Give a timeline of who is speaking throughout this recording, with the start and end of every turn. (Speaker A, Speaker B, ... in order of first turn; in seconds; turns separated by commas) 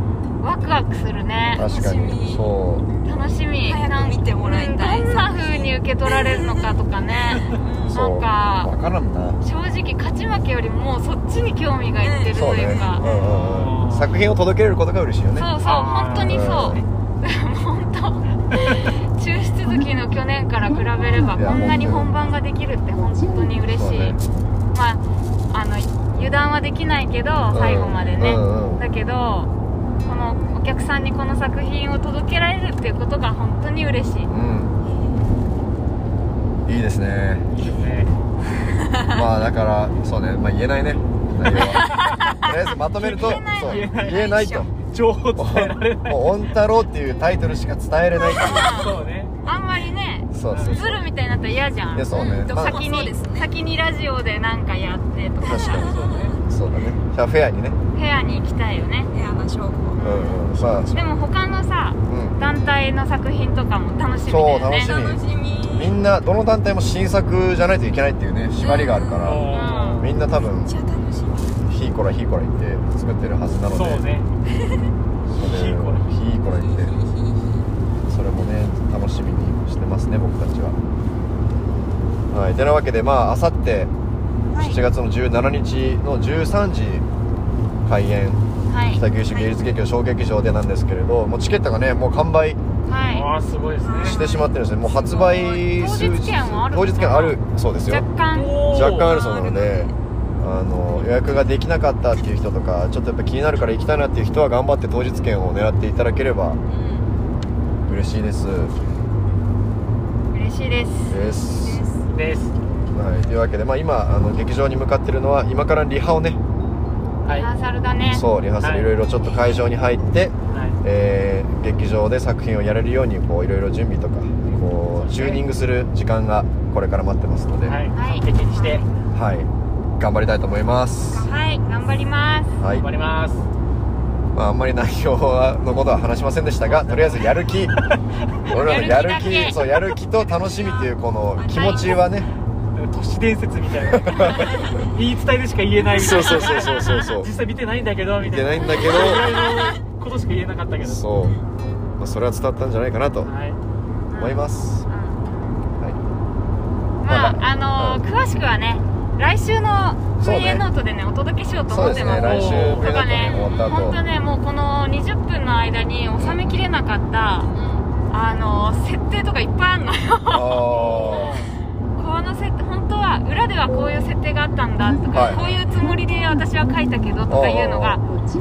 Speaker A: 0.4-1.7, Speaker B: 1.6-2.9, Speaker C: 1.6-2.5, Speaker A: 3.0-8.7, Speaker C: 3.7-6.6, Speaker C: 7.3-8.0, Speaker B: 7.9-9.4, Speaker A: 9.4-13.1, Speaker C: 12.0-13.2, Speaker B: 12.3-15.5, Speaker D: 13.1-14.1, Speaker A: 15.3-24.2, Speaker D: 15.6-16.4, Speaker B: 16.2-16.8, Speaker B: 21.3-22.2, Speaker B: 23.7-24.2, Speaker A: 24.7-29.5, Speaker B: 27.5-28.8, Speaker A: 30.0-34.3, Speaker B: 34.3-34.8, Speaker B: 36.7-37.5, Speaker D: 37.5-38.1, Speaker B: 39.1-44.7, Speaker A: 41.5-44.7, Speaker D: 43.1-44.3, Speaker D: 44.8-46.4, Speaker B: 45.4-48.8, Speaker A: 48.3-55.9, Speaker D: 48.6-49.3, Speaker B: 50.3-51.0, Speaker D: 50.5-50.9, Speaker B: 51.9-52.8, Speaker C: 52.1-53.5, Speaker B: 55.4-57.8, Speaker C: 55.5-56.4, Speaker D: 55.8-56.4, Speaker A: 57.9-59.1, Speaker C: 59.1-60.0, Speaker A: 60.0-64.9, Speaker B: 60.0-61.1, Speaker B: 62.1-62.4, Speaker B: 64.3-70.7, Speaker C: 64.8-66.0, Speaker C: 68.6-69.4, Speaker D: 69.2-70.1, Speaker A: 69.5-70.1, Speaker C: 70.5-71.6, Speaker B: 71.6-74.0, Speaker D: 73.7-74.3, Speaker B: 75.4-77.0, Speaker D: 75.4-76.1, Speaker C: 76.5-77.7, Speaker B: 78.1-80.8, Speaker B: 82.3-83.9, Speaker A: 84.5-84.8, Speaker B: 84.6-87.0, Speaker B: 87.8-92.6, Speaker A: 88.7-89.0, Speaker C: 89.3-89.5, Speaker A: 92.9-93.3, Speaker D: 93.1-94.2, Speaker C: 93.8-94.6, Speaker B: 94.0-98.1, Speaker A: 95.0-97.4, Speaker A: 97.9-98.5, Speaker D: 98.3-99.1, Speaker B: 98.7-106.6, Speaker C: 99.0-100.0, Speaker C: 106.7-107.2, Speaker B: 107.9-108.7, Speaker A: 110.3-111.2, Speaker B: 111.1-111.8, Speaker C: 111.1-112.1, Speaker D: 112.1-112.5, Speaker B: 112.9-116.4, Speaker A: 117.3-118.2, Speaker B: 118.1-127.8, Speaker D: 118.6-118.9, Speaker D: 120.5-120.8, Speaker D: 124.9-125.4, Speaker D: 127.7-128.8, Speaker A: 127.9-128.3, Speaker C: 128.5-128.9, Speaker B: 129.1-131.3, Speaker C: 131.1-131.4, Speaker A: 131.2-132.6, Speaker B: 132.6-132.9, Speaker D: 132.7-133.5, Speaker B: 134.3-137.8, Speaker D: 136.7-137.4, Speaker B: 138.4-142.3, Speaker A: 138.5-139.6, Speaker C: 140.1-142.1, Speaker D: 142.8-151.0, Speaker B: 143.9-144.3, Speaker B: 145.9-147.3, Speaker C: 146.1-146.7, Speaker B: 148.2-149.4, Speaker C: 149.0-149.8, Speaker B: 150.8-151.4, Speaker B: 152.0-153.3, Speaker D: 153.2-153.6, Speaker A: 154.1-155.6, Speaker B: 154.2-154.8, Speaker A: 157.0-167.5, Speaker B: 157.1-158.0, Speaker B: 160.2-160.7, Speaker B: 161.7-164.0, Speaker D: 161.9-162.9, Speaker B: 166.2-166.6, Speaker C: 167.6-167.9, Speaker A: 168.1-171.0, Speaker B: 170.3-171.4, Speaker D: 170.7-171.5, Speaker A: 171.9-178.0, Speaker B: 175.1-175.6, Speaker B: 177.3-178.0